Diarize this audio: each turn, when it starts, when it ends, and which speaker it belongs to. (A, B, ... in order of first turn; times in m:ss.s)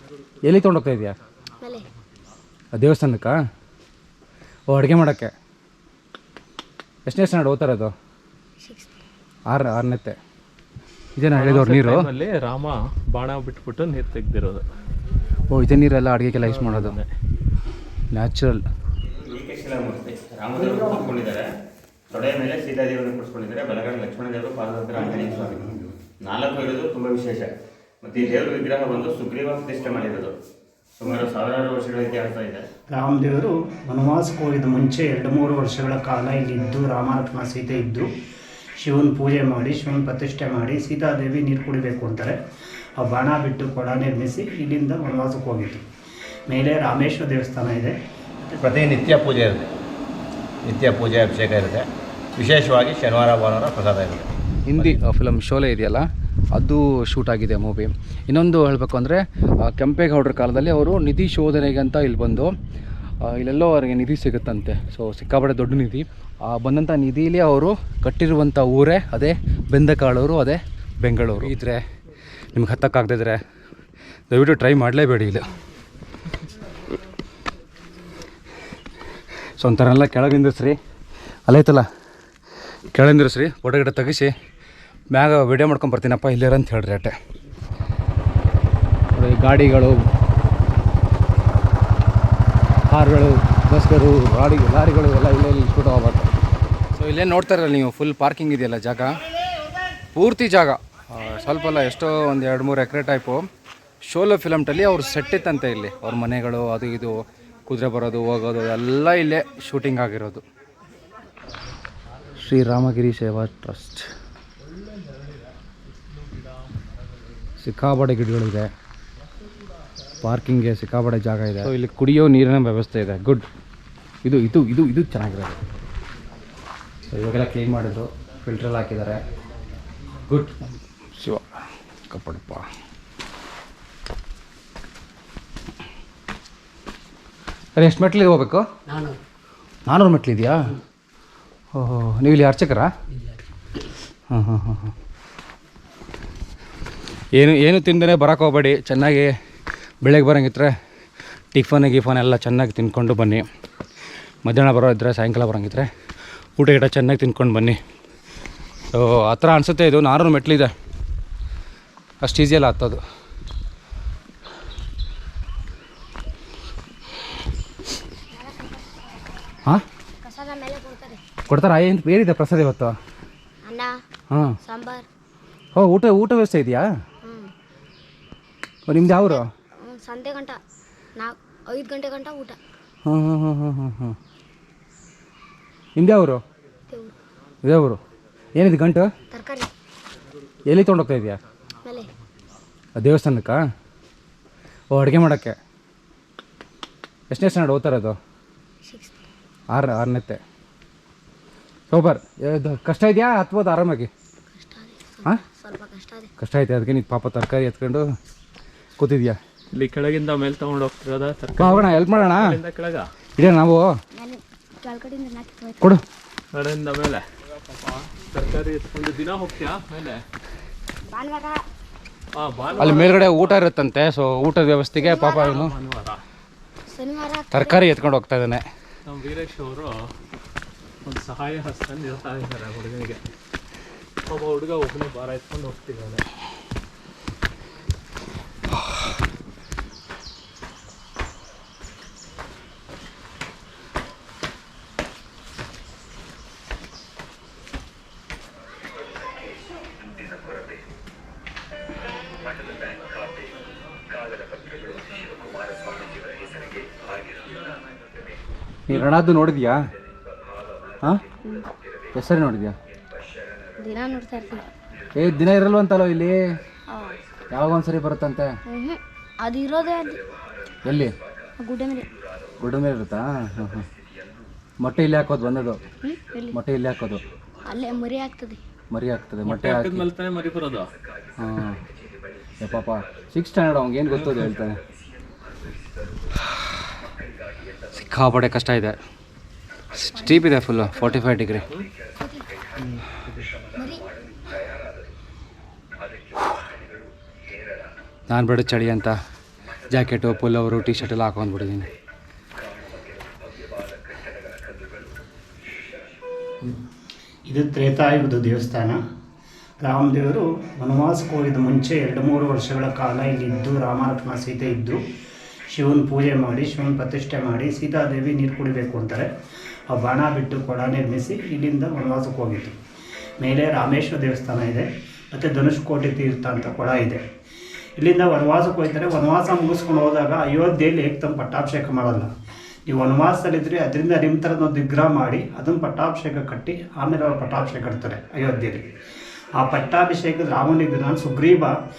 0:00.4-0:01.2 A
0:01.6-0:01.9 B
0:02.8-0:03.4 A
0:04.7-0:05.3 A
0:07.1-0:07.9 A
0:08.6-0:09.0 B
0:09.5-0:10.2 A
0:11.2-0:12.1 A
0:11.3-0:14.6 C
0:15.5-0:17.0 A
0:16.4-0:17.1 C
0:18.1-0:18.7 A
0:19.2-0:21.5 D
0:22.1-0:27.5 D
0:28.0-0:30.4 D
0:31.0-0:32.6 D
0:32.9-0:38.1 E
0:38.8-0:42.4 E
0:43.0-0:45.8 E
0:46.5-0:48.7 E
0:48.6-0:49.7 F
0:50.6-0:55.0 F
0:54.7-1:02.5 A
1:03.2-1:11.8 A
1:12.5-1:13.4 A
1:14.3-1:15.5 A
1:19.6-1:20.8 A
1:21.5-1:21.9 A
1:22.9-1:24.3 A
1:25.1-1:27.2 A
1:29.1-1:30.0 A
1:32.9-1:36.3 A
1:37.0-1:39.2 A
1:40.1-1:43.5 A
1:44.0-1:50.4 A
1:52.4-1:54.1 A
1:57.6-1:58.7 A
2:00.2-2:03.5 A
2:04.2-2:05.6 A
2:07.1-2:09.2 A
2:10.3-2:10.6 A
2:11.2-2:11.6 A
2:12.1-2:12.7 A
2:17.8-2:18.7 A
2:19.9-2:20.7 A
2:21.8-2:22.9 A
2:24.3-2:24.9 A
2:27.4-2:29.3 A
2:30.0-2:30.8 A
2:31.5-2:33.5 A
2:34.4-2:35.9 A
2:36.6-2:37.8 A
2:38.9-2:40.7 A
2:42.2-2:43.0 A
2:48.3-2:49.1 B
2:50.2-2:51.2 B
2:51.5-2:53.0 A
2:53.6-2:54.0 B
2:54.3-2:54.6 A
2:54.6-2:55.1 B
2:55.8-2:56.9 A
2:57.2-2:57.5 B
2:58.9-2:59.5 A
2:59.0-3:00.6 B
3:01.2-3:02.6 B
3:03.0-3:04.2 A
3:06.0-3:06.4 A
3:06.9-3:07.2 B
3:07.6-3:08.0 A
3:08.6-3:09.1 A
3:09.3-3:09.7 B
3:10.7-3:11.4 A
3:11.8-3:12.1 B
3:13.0-3:13.6 A
3:14.9-3:15.6 A
3:17.3-3:18.2 A
3:18.8-3:19.2 B
3:19.7-3:20.4 A
3:21.9-3:24.1 A
3:24.5-3:26.3 B
3:26.4-3:28.1 A
3:29.0-3:29.4 A
3:29.7-3:33.1 C
3:31.6-3:32.6 A
3:33.4-3:33.9 A
3:34.1-3:35.9 B
3:36.5-3:40.2 C
3:41.1-3:41.6 B
3:42.3-3:43.6 C
3:42.8-3:43.1 B
3:42.8-3:45.7 A
3:45.1-3:45.4 B
3:45.2-3:46.2 C
3:46.9-3:47.8 B
3:47.5-3:48.6 A
3:49.1-3:50.1 C
3:51.0-3:53.2 C
3:54.3-3:56.2 C
4:18.9-4:19.8 A
4:22.1-4:22.8 A
4:23.8-4:24.7 B
4:25.2-4:26.4 A
4:26.9-4:27.2 B
4:27.5-4:28.6 A
4:28.7-4:30.2 B
4:30.9-4:31.1 A
4:31.6-4:32.1 B
4:32.6-4:33.9 A
4:34.8-4:35.8 A
4:36.0-4:36.6 B
4:36.5-4:37.2 A
4:37.6-4:38.6 B
4:38.9-4:40.1 A
4:39.4-4:40.9 C
4:41.4-4:41.8 A
4:42.6-4:44.8 A
4:44.2-4:44.5 C
4:47.9-4:49.0 A
4:49.9-4:51.7 A
4:50.2-4:50.5 B
4:52.2-4:52.4 B
4:52.8-4:53.6 C
4:53.8-4:54.0 B
4:58.3-4:59.2 A
4:59.9-5:01.9 A
5:07.5-5:09.0 E
5:09.8-5:15.0 E
5:15.7-5:19.3 E
5:19.9-5:22.8 E
5:23.4-5:27.2 E
5:28.0-5:32.3 E
5:32.9-5:38.9 E
5:39.6-5:41.8 E